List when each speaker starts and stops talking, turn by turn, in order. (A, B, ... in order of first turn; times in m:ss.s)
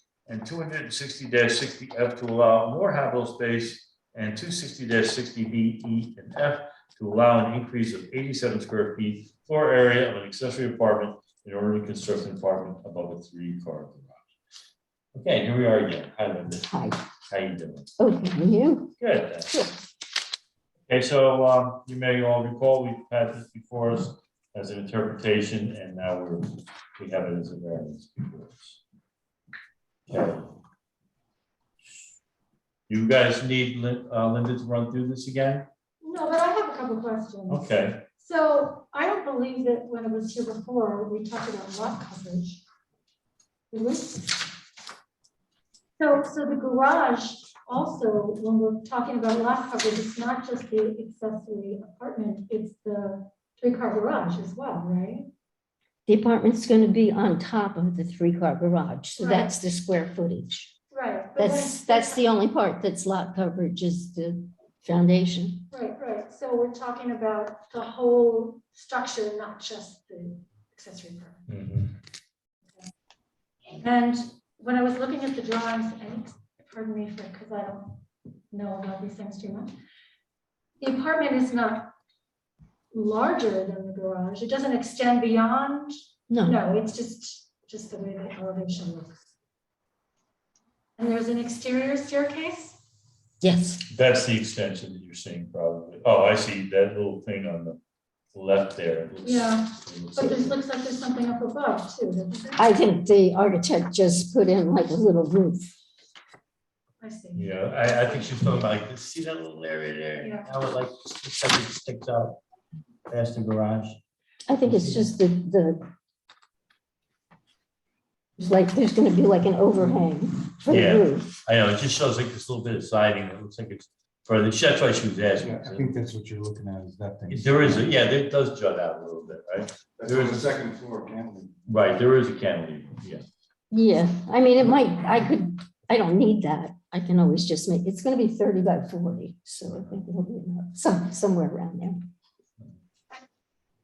0:00.3-0:14.2 A
0:15.2-0:16.7 A
0:16.7-0:17.0 B
0:17.3-0:17.9 A
0:18.0-0:18.9 B
0:19.0-0:19.5 A
0:19.5-0:19.8 B
0:20.9-0:26.4 A
0:27.0-0:28.8 A
0:30.1-0:30.5 A
0:32.9-0:35.7 A
0:36.0-0:37.7 C
0:37.5-0:38.1 A
0:38.2-0:42.6 C
0:43.7-0:44.4 C
0:46.0-0:55.3 C
0:56.1-1:00.7 B
0:59.2-0:59.5 C
1:00.9-1:02.2 C
1:01.4-1:05.7 B
1:05.7-1:11.5 C
1:11.5-1:12.0 A
1:13.8-1:19.7 C
1:20.8-1:21.9 C
1:22.9-1:29.2 C
1:26.3-1:26.6 B
1:31.0-1:32.8 C
1:33.4-1:33.9 B
1:33.9-1:37.8 A
1:38.3-1:40.6 A
1:39.2-1:42.7 C
1:42.6-1:45.7 B
1:47.0-1:48.2 C
1:47.4-1:52.4 A
1:50.2-1:50.5 C
1:53.1-1:54.0 A
1:54.5-1:55.8 B
1:54.6-1:55.1 A
1:58.4-2:01.3 B
2:00.7-2:06.0 A
2:05.4-2:07.9 D
2:07.3-2:10.5 A
2:10.0-2:11.5 D
2:11.7-2:13.2 A
2:13.7-2:22.1 B
2:19.7-2:20.0 A